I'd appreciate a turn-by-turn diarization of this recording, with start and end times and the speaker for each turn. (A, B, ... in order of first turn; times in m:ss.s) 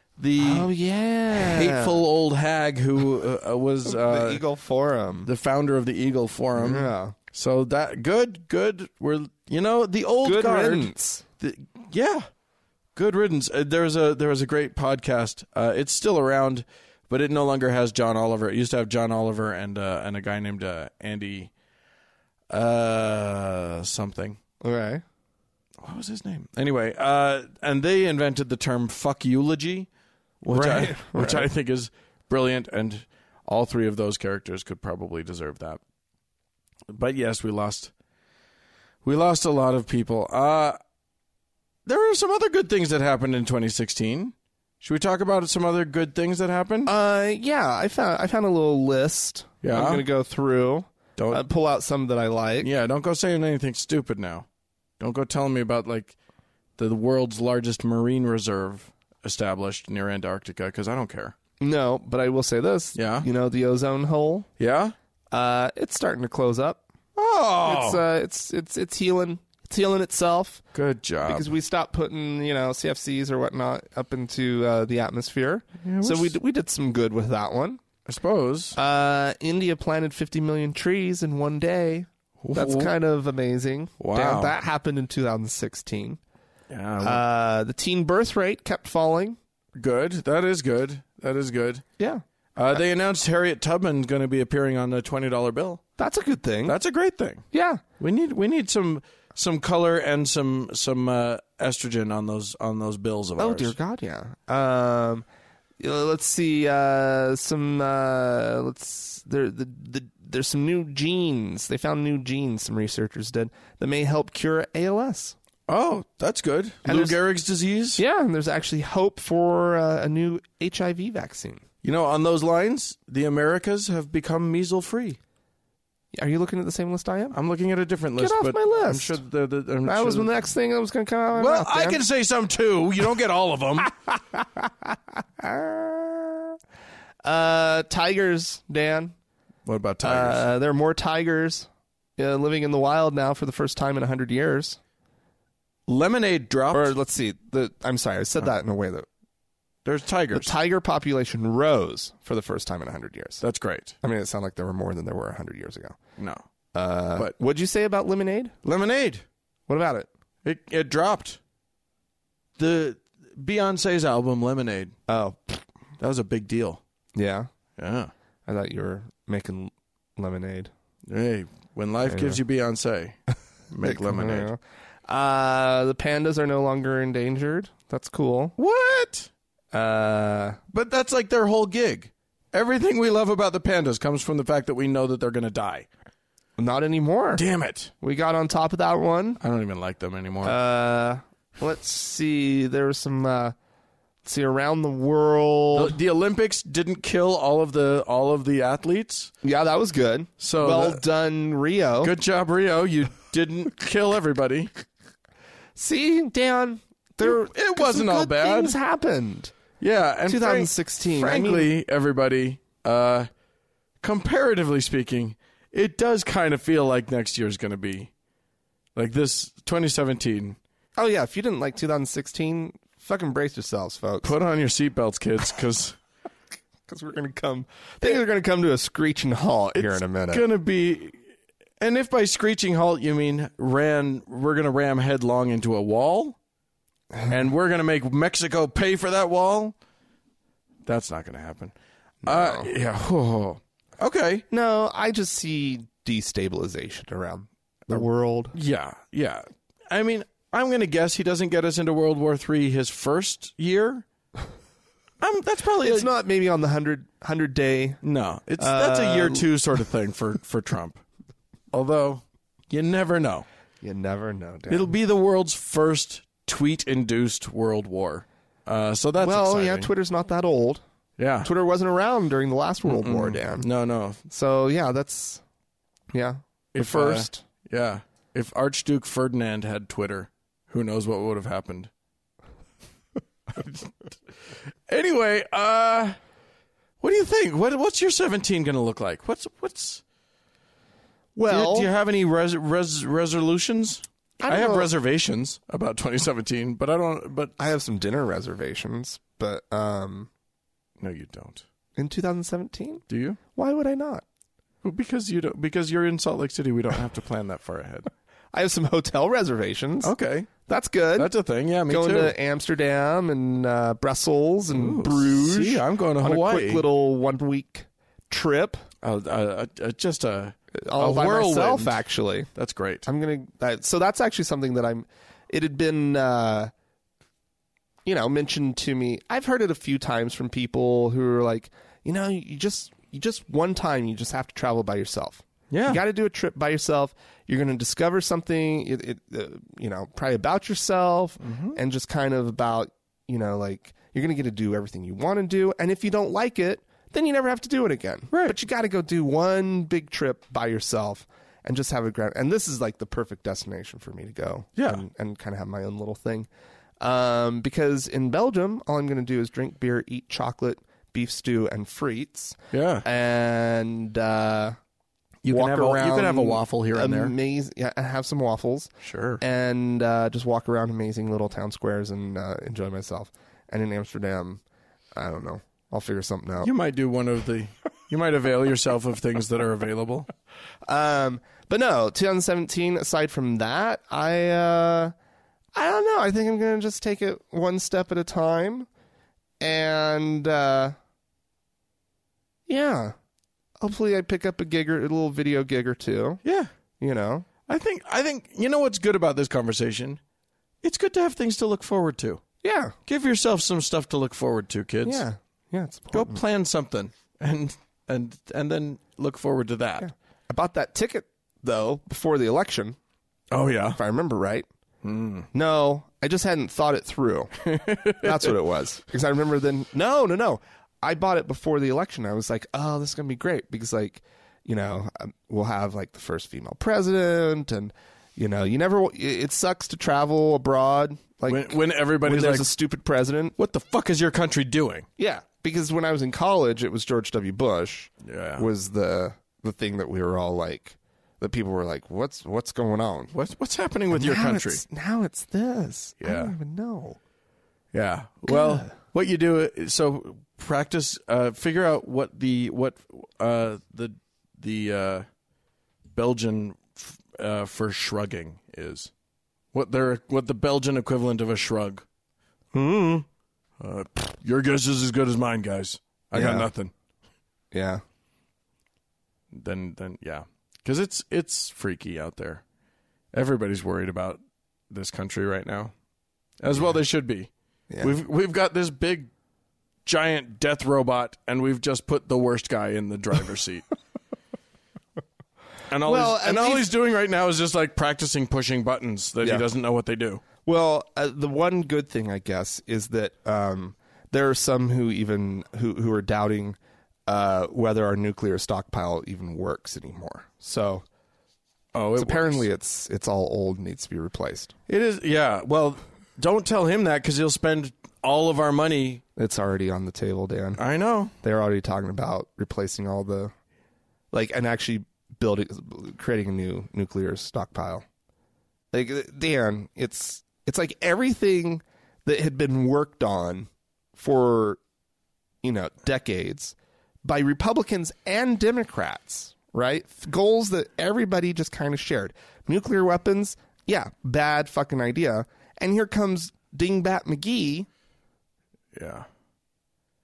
0:00.2-0:00.7 A
0:00.4-0:02.0 B
0:01.3-0:04.4 A
0:03.8-0:05.3 B
0:05.2-0:12.3 A
0:06.6-0:07.2 B
0:10.2-0:11.2 B
0:13.0-0:21.5 A
0:22.5-0:24.4 A
0:24.6-0:25.0 B
0:25.8-0:29.9 A
0:30.4-0:35.8 A
0:30.4-0:31.5 B
0:36.9-0:37.9 A
0:39.0-0:40.8 A
0:41.9-0:46.9 A
0:46.9-0:52.7 B
0:49.6-0:50.0 A
0:51.2-0:51.4 A
0:52.6-0:54.5 A
0:55.0-0:56.2 A
0:56.8-1:01.4 A
1:01.6-1:04.5 B
1:02.9-1:03.3 A
1:04.6-1:05.0 A
1:05.3-1:06.8 B
1:07.2-1:08.0 A
1:07.6-1:10.6 B
1:10.7-1:11.5 A
1:11.2-1:17.8 B
1:15.8-1:16.4 A
1:18.0-1:18.8 A
1:18.8-1:26.2 B
1:22.4-1:22.9 A
1:24.0-1:24.6 A
1:26.7-1:27.2 A
1:27.0-1:29.4 B
1:29.7-1:31.8 A
1:32.6-1:35.8 A
1:36.0-1:36.8 B
1:36.7-1:37.4 A
1:37.5-1:37.8 B
1:38.0-1:43.7 A
1:43.4-1:45.3 B
1:45.8-1:55.4 B
1:55.7-1:58.0 A
1:56.8-1:57.2 B
1:58.0-2:01.6 B
2:01.8-2:05.2 A
2:06.1-2:07.4 B
2:07.3-2:10.3 A
2:08.2-2:09.2 B
2:09.8-2:12.0 B
2:11.4-2:13.9 A
2:14.0-2:16.6 B
2:17.2-2:19.1 B
2:19.6-2:20.5 A
2:20.0-2:24.8 B
2:25.9-2:26.9 A
2:26.7-2:29.0 B
2:29.8-2:30.5 A
2:30.3-2:33.4 B
2:33.4-2:34.0 A
2:34.0-2:36.0 B
2:36.2-2:36.4 A
2:36.7-2:38.6 B
2:38.6-2:39.2 A
2:39.7-2:40.1 B
2:40.4-2:41.4 A
2:42.6-2:45.0 A
2:45.1-2:45.6 B
2:46.0-2:46.8 A
2:47.1-2:47.5 B
2:47.8-2:48.1 A
2:48.4-2:50.7 B
2:51.1-2:53.2 A
2:52.0-2:52.4 B
2:53.7-2:54.5 A
2:53.8-2:58.6 B
2:58.6-2:59.3 A
2:59.7-3:00.6 B
3:00.7-3:05.9 A
3:06.6-3:07.4 B
3:07.4-3:07.9 A
3:08.0-3:09.4 B
3:09.4-3:10.6 A
3:10.4-3:13.6 B
3:14.2-3:16.0 B
3:15.7-3:19.3 A
3:19.4-3:22.1 B
3:20.4-3:21.0 A
3:22.0-3:24.7 A
3:25.8-3:29.5 B
3:27.2-3:28.7 A
3:29.8-3:33.3 A
3:30.3-3:31.7 B
3:34.0-3:38.1 A
3:39.0-3:40.6 A
3:41.0-3:44.3 B
3:44.2-3:46.0 A
3:46.9-3:50.5 B
3:49.8-3:51.2 A
3:51.8-3:56.4 A
3:57.3-3:59.7 A
4:00.8-4:04.4 A
4:02.2-4:02.7 B
4:04.5-4:08.6 B
4:08.5-4:14.0 A
4:15.2-4:16.1 A
4:15.8-4:18.0 B
4:18.0-4:21.0 A
4:18.6-4:19.5 B
4:21.7-4:23.4 A
4:23.8-4:24.9 B
4:24.7-4:29.9 A
4:29.2-4:30.8 B
4:31.2-4:31.5 A
4:31.4-4:33.7 B
4:32.8-4:34.2 A
4:34.3-4:35.4 B
4:36.1-4:37.4 B
4:36.7-4:41.9 A
4:43.6-4:43.9 A
4:44.5-4:46.2 A
4:47.0-4:50.0 A
4:51.4-4:51.9 B
4:51.5-4:57.5 A
4:54.4-4:54.9 B
4:57.6-5:00.3 B
5:01.0-5:01.6 A
5:02.0-5:03.0 B
5:03.1-5:03.4 A
5:03.5-5:04.2 B
5:04.8-5:08.1 A
5:08.5-5:11.3 B
5:10.0-5:10.5 A
5:11.2-5:12.4 A
5:11.9-5:18.8 B
5:14.7-5:16.8 A
5:19.0-5:22.0 A
5:20.8-5:22.5 B
5:22.6-5:23.1 A
5:23.0-5:26.7 B
5:28.0-5:56.5 B
5:35.7-5:36.0 A
5:41.4-5:41.8 A
5:48.3-5:48.6 A
5:54.8-5:55.0 A
5:57.0-6:04.8 B
6:02.7-6:03.0 A
6:05.4-6:07.3 A
6:05.5-6:14.6 B
6:09.0-6:09.4 A
6:15.2-6:16.7 B
6:16.6-6:20.3 A
6:20.9-6:25.1 B
6:25.7-6:28.9 B
6:29.6-6:31.0 B
6:32.7-6:33.2 B
6:33.8-6:36.4 B
6:36.4-6:36.7 A
6:37.0-6:37.4 B
6:37.7-6:40.2 A
6:40.8-6:42.4 A
6:42.6-6:43.0 B
6:43.1-6:45.2 A
6:45.0-6:46.4 B
6:46.1-6:50.1 A
6:50.0-6:53.0 B
6:53.5-6:54.0 A
6:54.0-6:54.7 B
6:55.0-6:55.5 A
6:55.5-6:57.5 B
6:57.6-6:58.5 A
6:58.2-7:13.6 B
7:11.5-7:12.7 A
7:13.6-7:15.0 A
7:15.2-7:23.3 B
7:18.2-7:18.7 A
7:23.3-7:24.8 A
7:24.1-7:27.2 B
7:26.2-7:26.5 A
7:27.9-7:35.3 A
7:28.5-7:28.9 B
7:36.1-7:39.1 A
7:39.7-7:42.0 A
7:42.8-7:43.2 A
7:43.8-7:46.9 A
7:46.3-7:46.7 B
7:47.7-7:48.0 B
7:49.5-7:52.6 A
7:53.3-7:55.9 A
7:56.6-7:59.3 A
7:57.9-7:58.2 B
8:00.0-8:03.9 A
8:05.9-8:10.4 A
8:06.0-8:06.9 B
8:09.4-8:09.7 B
8:10.6-8:21.0 B
8:21.9-8:22.7 A
8:22.2-8:24.7 B
8:24.9-8:29.2 A
8:29.4-8:30.8 B
8:30.8-8:31.3 A
8:31.4-8:33.5 B
8:34.3-8:38.0 B
8:38.9-8:44.8 B
8:45.6-8:57.9 B
8:58.9-8:59.3 A